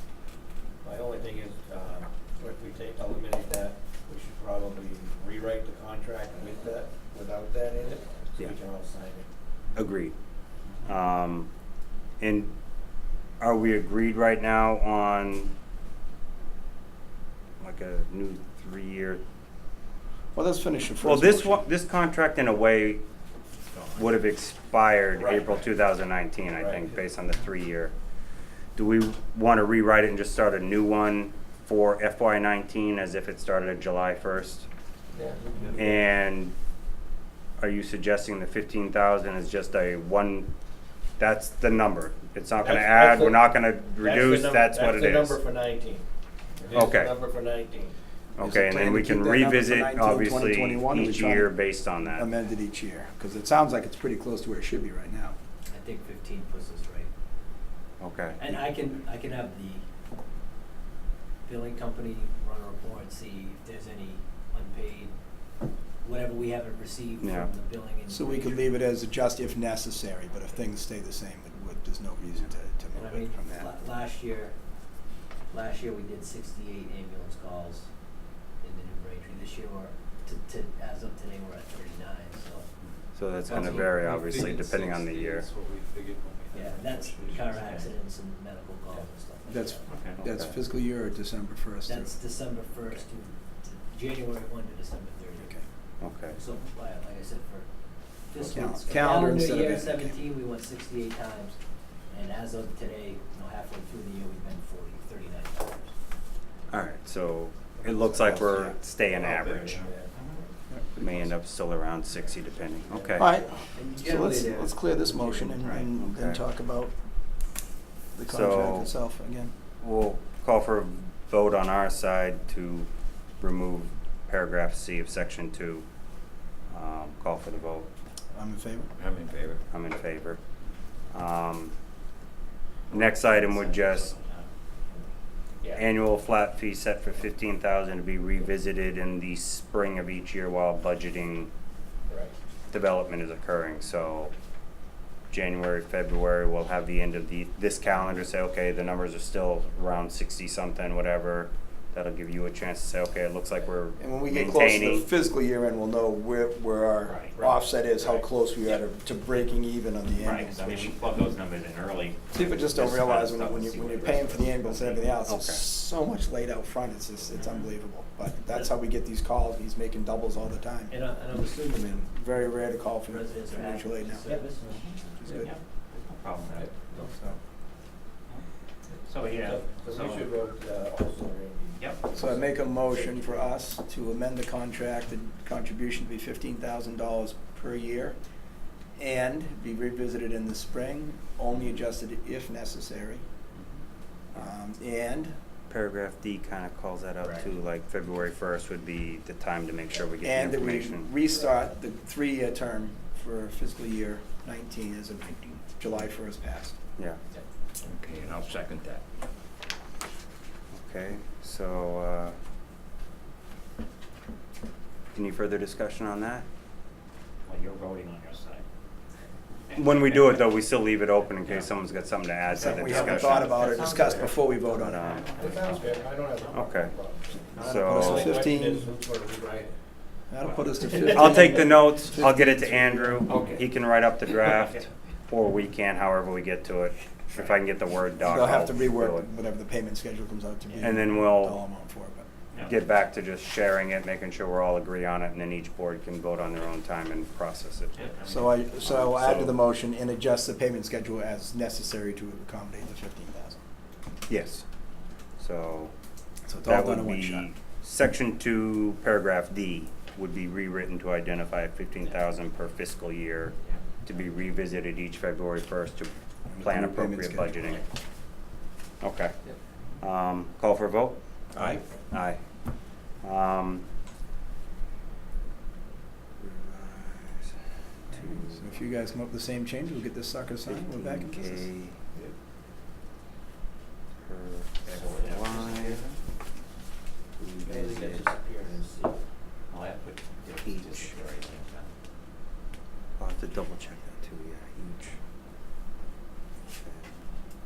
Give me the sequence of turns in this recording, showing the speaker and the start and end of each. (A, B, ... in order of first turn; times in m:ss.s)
0:00.8-0:09.3 A
0:09.8-0:10.1 B
0:10.8-0:11.5 B
0:12.2-0:12.5 B
0:13.4-0:15.5 B
0:17.6-0:19.2 B
0:20.4-0:21.7 C
0:21.0-0:23.0 B
0:23.7-0:24.0 D
0:24.0-0:27.9 B
0:25.2-0:25.7 A
0:26.6-0:26.9 A
0:28.8-0:34.7 B
0:35.1-0:35.8 A
0:35.7-0:36.5 B
0:37.6-0:40.5 B
0:41.2-0:45.4 B
0:42.6-0:46.0 A
0:46.6-0:48.0 A
0:46.7-0:47.1 B
0:48.4-0:52.3 B
0:48.4-0:51.5 C
0:52.1-0:55.4 C
0:55.7-0:57.1 E
0:58.0-0:58.4 B
0:58.4-0:59.9 E
1:01.5-1:05.1 E
1:06.0-1:08.8 E
1:07.2-1:07.5 B
1:08.1-1:13.7 C
1:13.0-1:14.6 E
1:15.5-1:17.9 E
1:18.6-1:22.7 E
1:23.2-1:25.5 B
1:23.5-1:27.8 F
1:26.5-1:29.9 E
1:27.5-1:27.9 D
1:29.5-1:32.1 C
1:29.9-1:30.2 D
1:30.2-1:30.6 B
1:31.8-1:35.6 E
1:36.0-1:36.4 B
1:36.3-1:37.7 E
1:38.3-1:41.6 E
1:38.4-1:38.7 B
1:38.5-1:40.2 C
1:42.1-1:45.9 E
1:46.7-1:49.9 B
1:48.0-1:48.8 C
1:49.2-1:50.0 F
1:50.1-1:50.4 D
1:51.0-1:53.4 B
1:52.9-1:53.2 E
1:53.2-1:56.9 C
1:53.7-1:55.7 E
1:55.6-1:56.4 B
1:58.2-1:59.5 C
1:58.3-1:58.9 B
1:59.8-2:05.8 B
2:06.7-2:07.9 B
2:08.3-2:08.9 C
2:09.2-2:09.5 D
2:09.7-2:10.4 B
2:11.1-2:11.7 B
2:12.9-2:14.5 D
2:12.9-2:14.1 B
2:15.7-2:21.5 B
2:22.1-2:22.3 A
2:22.7-2:24.3 B
2:25.3-2:35.1 B
2:34.0-2:41.1 C
2:37.0-2:37.4 D
2:37.3-2:38.3 A
2:40.2-2:45.1 D
2:42.3-2:50.9 C
2:45.3-2:45.6 B
2:47.4-2:47.7 D
2:50.9-2:52.1 E
2:51.9-2:54.3 C
2:53.0-2:54.8 E
2:54.6-2:56.7 D
2:55.2-2:55.5 C
2:56.4-2:57.3 A
2:59.0-3:00.3 D
2:59.3-3:03.5 A
3:01.8-3:02.1 D
3:02.2-3:08.2 C
3:09.0-3:13.2 C
3:14.3-3:15.3 C
3:15.7-3:21.1 B
3:20.2-3:26.8 C
3:27.8-3:29.0 F
3:30.7-3:32.4 B
3:35.1-3:36.5 B
3:37.4-3:38.6 D
3:39.7-3:40.5 D
3:39.7-3:43.6 B
3:41.3-3:41.7 D
3:42.6-3:45.2 C
3:42.6-3:44.3 D
3:43.1-3:44.3 A
3:44.7-3:45.3 B
3:45.1-3:46.6 D
3:45.4-3:49.7 A
3:46.5-3:46.9 B
3:47.6-3:48.4 B
3:47.6-3:48.9 C
3:50.3-3:53.5 C
3:50.4-3:50.7 D
3:50.9-3:51.4 A
3:51.0-3:59.3 B
3:53.3-3:53.6 D
3:54.4-3:54.8 D
3:57.3-3:57.6 D
3:58.2-4:02.3 C
4:00.8-4:01.6 B
4:02.6-4:08.1 B
4:07.9-4:08.8 D
4:08.3-4:13.6 C
4:08.8-4:09.6 B
4:14.3-4:14.6 B
4:15.4-4:15.9 B
4:16.5-4:17.5 C
4:16.6-4:27.8 B
4:26.5-4:27.8 C
4:29.0-4:29.3 B
4:30.0-4:32.4 B
4:31.5-4:31.8 C
4:33.2-4:33.8 B
4:36.4-4:38.8 B
4:38.4-4:41.7 C
4:40.6-4:42.0 B
4:44.2-4:46.0 B
4:44.9-4:46.0 A
4:45.6-4:46.2 D
4:47.4-4:48.3 B
4:47.6-4:49.2 A
4:49.7-4:51.9 D
4:50.6-4:51.1 B
4:53.2-4:55.2 B
4:56.7-4:57.3 B